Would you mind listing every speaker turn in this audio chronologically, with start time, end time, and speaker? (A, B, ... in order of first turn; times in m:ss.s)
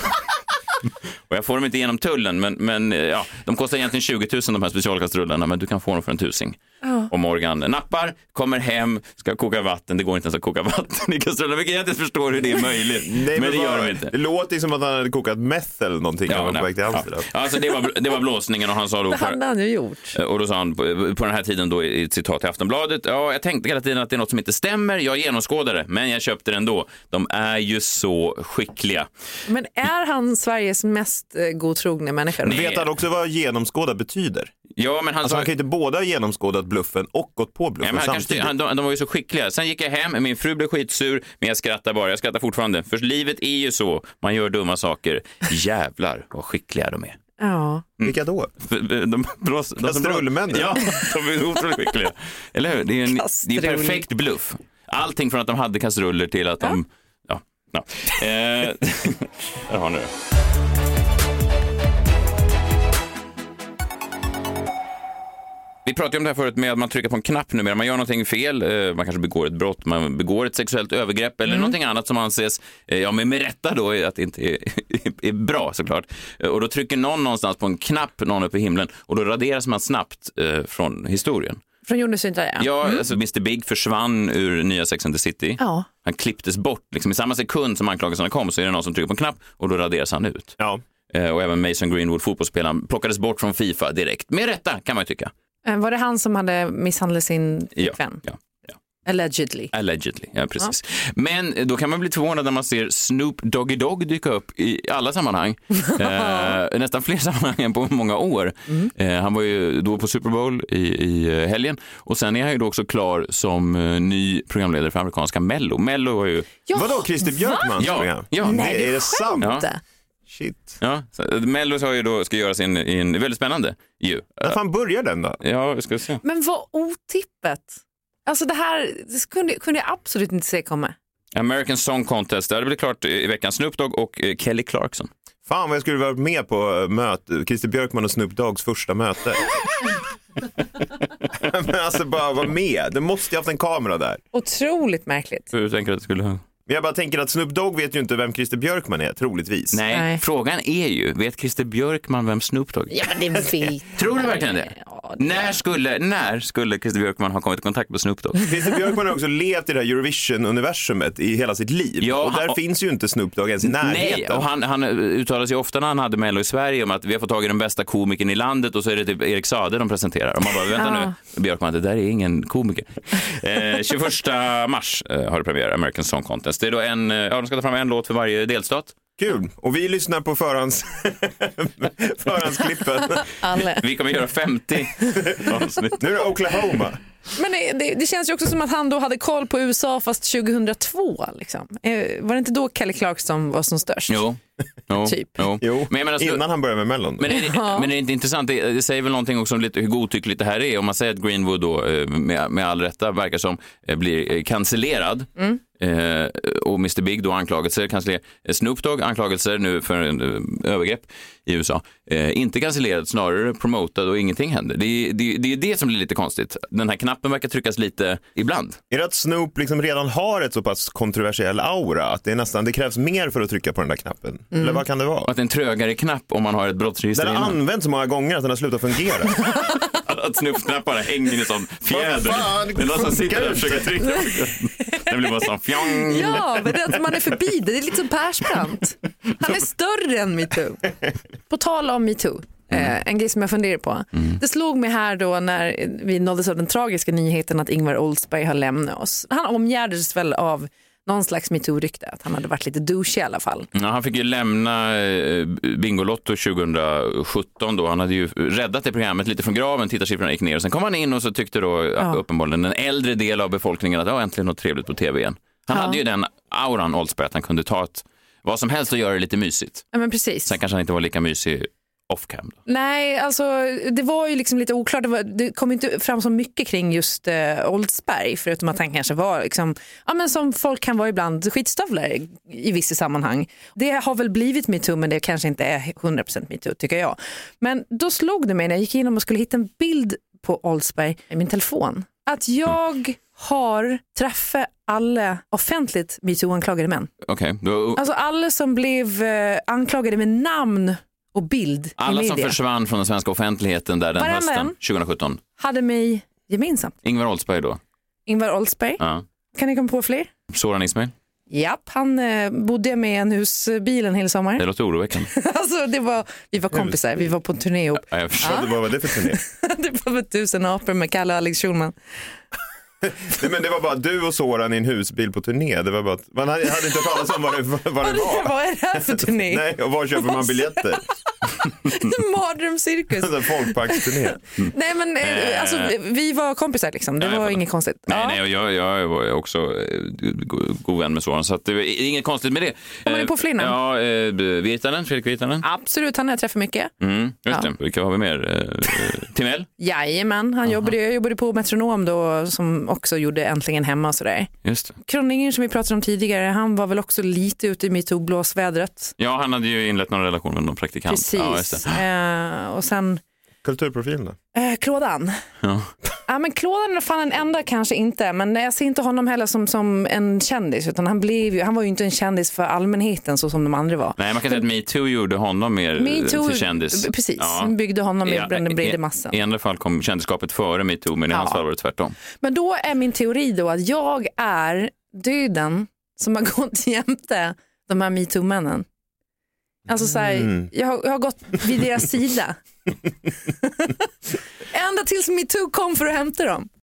0:01.3-0:06.6 A
0:06.8-0:07.1 B
0:07.1-0:14.1 A
0:13.0-0:17.2 C
0:16.3-0:19.4 A
0:19.1-0:20.1 B
0:20.1-0:29.1 A
0:29.5-0:32.6 B
0:32.4-0:34.5 C
0:32.4-0:32.9 A
0:34.8-0:35.5 A
0:35.2-0:38.5 C
0:37.8-0:47.2 A
0:47.4-0:47.8 B
0:48.0-1:00.1 A
0:48.0-0:48.5 C
0:49.8-0:50.7 C
0:53.1-0:54.0 B
1:05.8-1:21.6 A
1:11.5-1:11.7 B
1:21.8-1:23.0 B
1:22.6-1:30.6 A
1:25.6-1:25.9 B
1:31.1-1:35.3 A
1:35.6-1:38.2 B
1:37.8-1:38.4 A
1:39.0-1:39.7 B
1:39.7-1:56.5 A
1:46.1-1:46.5 B
1:56.7-1:57.7 B
1:56.7-1:59.5 C
1:57.8-1:58.6 A
1:58.4-1:59.8 B
1:59.4-1:59.6 A
2:00.3-2:00.8 C
2:00.8-2:04.6 A
2:04.4-2:05.4 C
2:05.4-2:06.2 A
2:06.2-2:10.9 B
2:11.3-2:15.1 A
2:15.4-2:19.4 C
2:21.4-2:24.2 C
2:24.3-2:25.5 B
2:25.5-2:26.4 A
2:26.7-2:29.8 C
2:29.7-2:33.1 A
2:29.9-2:30.2 B
2:32.9-2:35.5 B
2:34.0-2:38.4 A
2:38.5-2:44.5 C
2:42.0-2:42.6 A
2:43.6-2:59.0 A
2:50.8-2:51.1 B
2:59.2-3:03.2 C
3:03.2-3:03.8 B
3:03.8-3:06.0 A
3:05.3-3:07.0 C
3:07.4-3:14.2 B
3:14.1-3:16.4 A
3:15.0-3:15.3 B
3:15.6-3:17.3 C
3:17.2-3:38.8 A
3:17.3-3:17.9 B
3:38.9-3:45.3 C
3:44.5-3:44.8 B
3:45.2-3:47.6 A
3:47.1-3:49.3 C
3:50.0-3:56.7 A
3:51.9-3:53.9 C
3:55.8-4:00.8 B
4:01.5-4:13.7 B
4:13.7-4:29.8 A
4:25.7-4:26.0 B
4:29.9-4:30.5 B
4:30.5-4:32.6 A
4:32.6-4:57.1 B
4:57.2-4:58.0 A
4:58.0-5:02.5 B
5:02.0-5:05.4 A
5:04.2-5:04.8 B
5:05.6-5:06.9 B
5:07.0-5:07.8 A
5:08.3-5:09.0 B
5:09.5-5:10.3 B
5:10.5-5:11.1 A
5:11.5-5:14.6 B
5:14.6-5:15.3 A
5:15.3-5:21.9 B
5:18.0-5:18.6 A
5:18.4-5:19.4 C
5:23.1-5:31.0 C
5:28.0-5:29.6 B
5:30.2-5:30.8 B
5:31.8-5:38.4 B
5:33.1-5:34.4 C
5:35.2-5:35.9 A
5:37.2-5:45.6 A
5:43.0-5:43.7 B
5:45.6-5:46.9 B
5:47.0-5:49.7 A
5:49.8-5:54.5 B
5:54.6-5:54.9 A
5:55.0-5:59.1 B
5:59.2-6:01.9 A
6:01.1-6:03.2 B
6:03.6-6:04.4 C
6:04.5-6:05.4 B
6:05.6-6:05.9 A
6:06.3-6:14.6 B
6:14.2-6:22.1 A
6:16.0-6:19.4 B
6:21.3-6:21.6 B
6:22.4-6:28.8 B
6:29.9-6:32.6 B
6:30.3-6:30.7 C
6:33.6-6:33.9 B
6:34.7-6:36.7 B